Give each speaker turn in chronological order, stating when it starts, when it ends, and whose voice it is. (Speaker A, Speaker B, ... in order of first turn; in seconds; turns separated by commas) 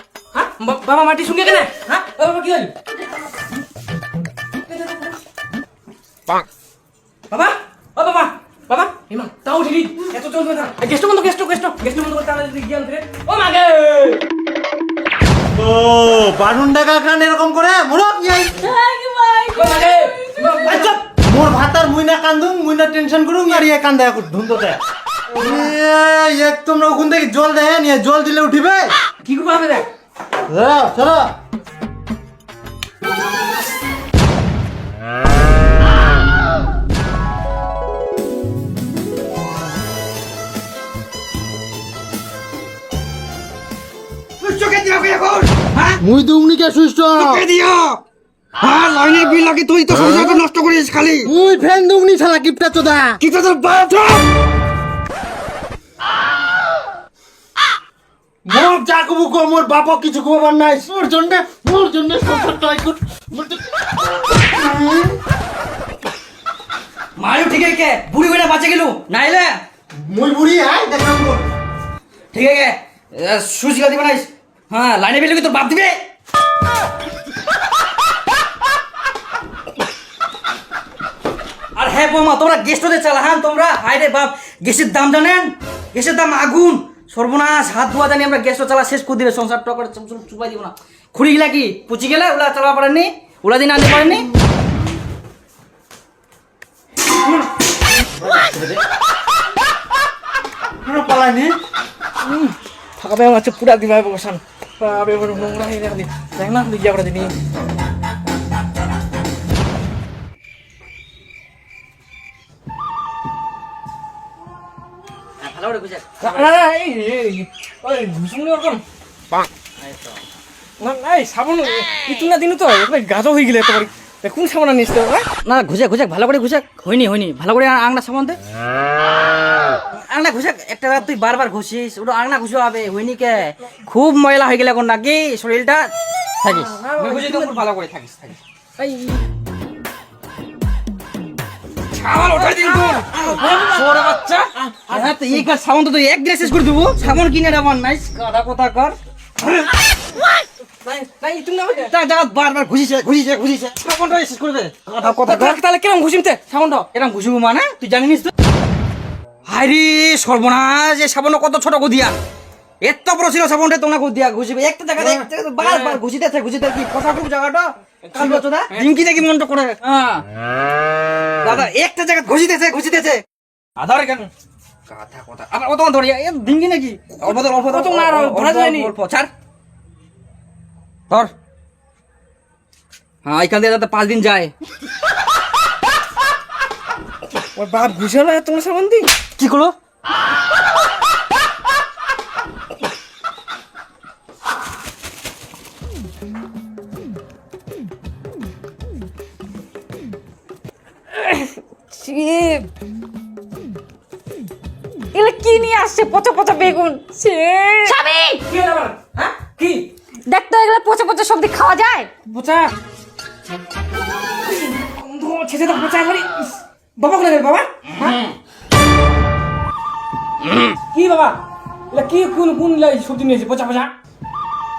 Speaker A: 0.3-2.7, Speaker A: 4.7-5.2, Speaker A: 7.3-14.2, Speaker B: 15.5-18.6, Speaker C: 18.6-20.6, Speaker A: 19.5-20.9, Speaker B: 20.6-24.8, Speaker B: 25.3-28.9, Speaker A: 29.2-29.9, Speaker B: 30.5-31.3, Speaker D: 44.4-46.0, Speaker B: 46.0-47.5, Speaker D: 47.1-48.0, Speaker D: 48.6-51.3, Speaker B: 51.2-53.2, Speaker D: 53.2-54.2, Speaker B: 58.5-63.6, Speaker B: 64.3-65.2, Speaker D: 67.2-69.5, Speaker B: 70.0-71.5, Speaker D: 72.3-75.9, Speaker D: 81.8-94.3, Speaker B: 98.1-98.8, Speaker B: 100.8-101.5, Speaker A: 102.2-107.3, Speaker D: 115.4-116.5, Speaker A: 116.2-118.8, Speaker D: 119.8-120.2, Speaker A: 120.8-125.3, Speaker D: 125.4-128.4, Speaker D: 129.9-135.9, Speaker D: 136.4-138.4, Speaker A: 136.5-137.6, Speaker A: 138.8-139.2, Speaker D: 141.9-148.9, Speaker A: 142.3-143.9, Speaker A: 144.7-145.0, Speaker A: 150.8-151.9, Speaker D: 151.7-155.6, Speaker A: 155.0-156.9, Speaker D: 156.9-158.3, Speaker D: 159.4-162.2, Speaker D: 162.8-170.2, Speaker A: 165.6-166.0, Speaker A: 168.1-168.9, Speaker D: 171.4-173.2, Speaker D: 173.8-174.3, Speaker D: 174.9-179.3, Speaker A: 177.2-178.9, Speaker D: 183.2-184.5, Speaker A: 187.5-189.1, Speaker D: 189.4-189.7, Speaker C: 201.1-202.7, Speaker C: 205.1-208.4, Speaker A: 207.8-209.9, Speaker C: 210.3-212.1, Speaker A: 212.2-212.7, Speaker A: 214.2-218.2, Speaker A: 220.9-221.4, Speaker A: 221.9-223.9